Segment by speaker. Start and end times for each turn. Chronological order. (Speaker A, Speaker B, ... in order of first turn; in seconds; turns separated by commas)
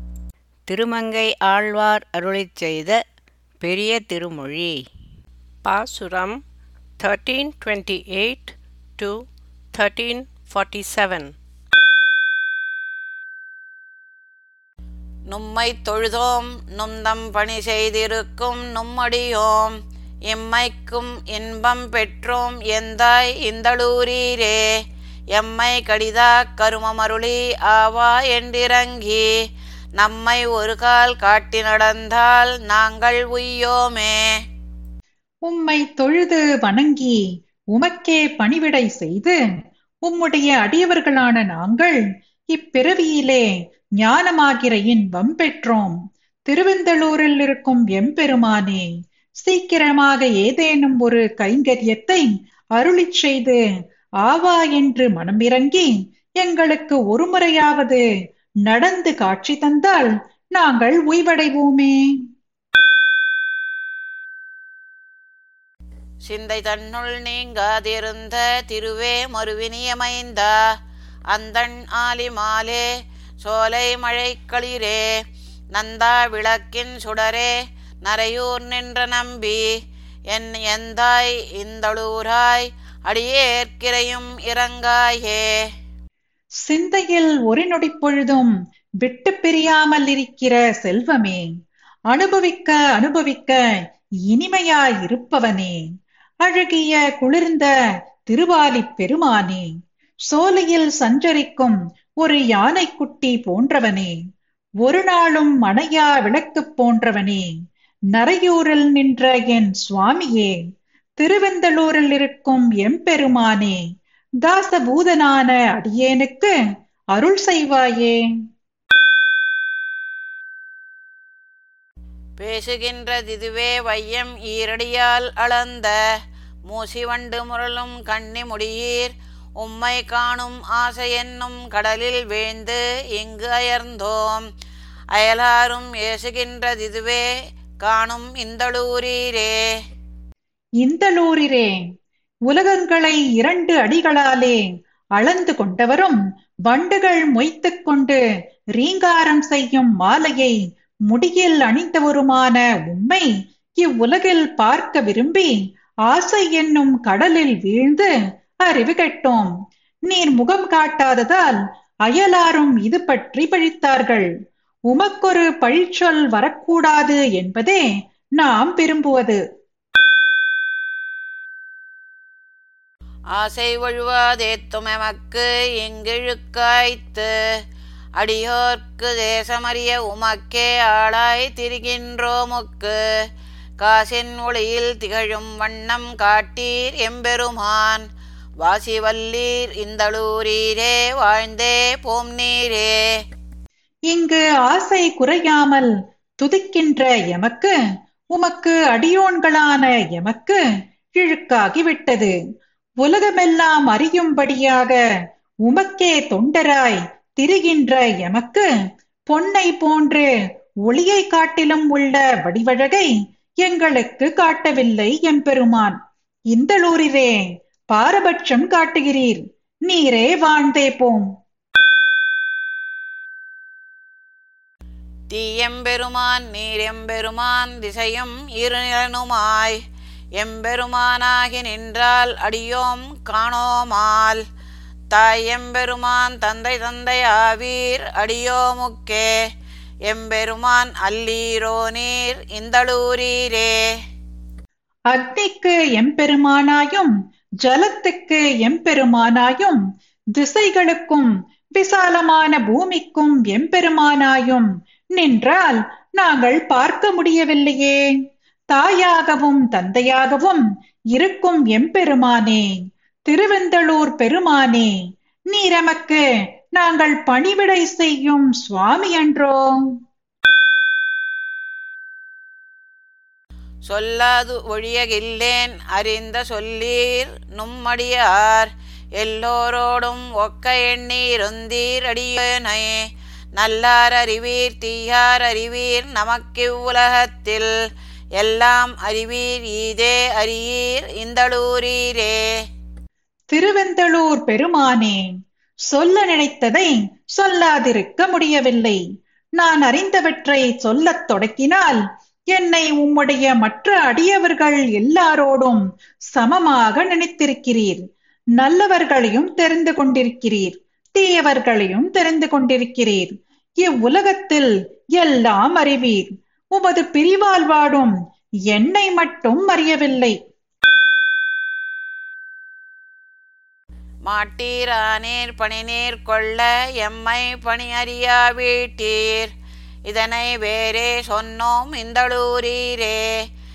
Speaker A: 0.7-3.0, Speaker A: 3.6-4.8, Speaker B: 5.6-6.4, Speaker B: 7.0-11.3, Speaker C: 15.3-19.7, Speaker C: 20.3-24.6, Speaker C: 25.3-29.2, Speaker C: 30.0-34.3, Speaker D: 35.5-37.2, Speaker D: 37.7-39.4, Speaker D: 40.0-42.0, Speaker D: 42.5-43.5, Speaker D: 44.0-46.0, Speaker D: 46.5-48.9, Speaker D: 49.4-53.6, Speaker D: 54.2-58.0, Speaker D: 58.6-62.0, Speaker C: 66.2-70.5, Speaker C: 71.3-72.8, Speaker C: 73.4-75.0, Speaker C: 75.7-77.5, Speaker C: 78.0-79.6, Speaker C: 80.3-85.5, Speaker D: 86.6-91.5, Speaker D: 92.1-93.6, Speaker D: 94.3-95.8, Speaker D: 96.4-97.7, Speaker D: 98.2-99.7, Speaker D: 100.3-104.1, Speaker D: 104.8-107.5, Speaker D: 108.1-110.6, Speaker D: 111.2-113.8, Speaker D: 114.4-116.5, Speaker D: 117.1-118.2, Speaker C: 122.4-126.0, Speaker C: 126.7-134.4, Speaker C: 135.1-137.2, Speaker C: 137.8-139.6, Speaker D: 140.8-141.8, Speaker D: 142.5-144.6, Speaker D: 145.2-148.2, Speaker D: 148.8-150.6, Speaker D: 151.1-155.5, Speaker D: 156.1-158.1, Speaker D: 158.6-159.5, Speaker D: 160.1-164.3, Speaker D: 164.9-167.8, Speaker D: 168.4-169.4, Speaker C: 173.3-177.3, Speaker C: 178.2-182.9, Speaker C: 183.8-188.0, Speaker C: 188.6-192.9, Speaker D: 194.1-197.7, Speaker D: 198.3-200.6, Speaker D: 201.1-202.3, Speaker D: 203.0-205.0, Speaker D: 205.7-208.7, Speaker D: 209.3-210.3, Speaker D: 210.8-213.1, Speaker D: 213.6-215.9, Speaker D: 216.5-221.2, Speaker C: 225.3-229.8, Speaker C: 230.4-234.4, Speaker C: 235.1-239.3, Speaker C: 240.1-243.7, Speaker D: 245.1-247.1, Speaker D: 247.6-249.8, Speaker D: 250.3-258.0, Speaker D: 258.7-260.6, Speaker D: 261.1-264.9, Speaker D: 265.5-266.2, Speaker D: 266.7-269.7, Speaker C: 273.9-283.0, Speaker C: 283.6-287.7, Speaker C: 288.4-292.4, Speaker D: 293.5-295.2, Speaker D: 295.9-299.0, Speaker D: 299.6-302.0, Speaker D: 302.5-305.8, Speaker D: 306.3-308.0, Speaker D: 308.6-318.1, Speaker D: 318.7-320.4, Speaker C: 324.2-329.5, Speaker C: 330.1-333.2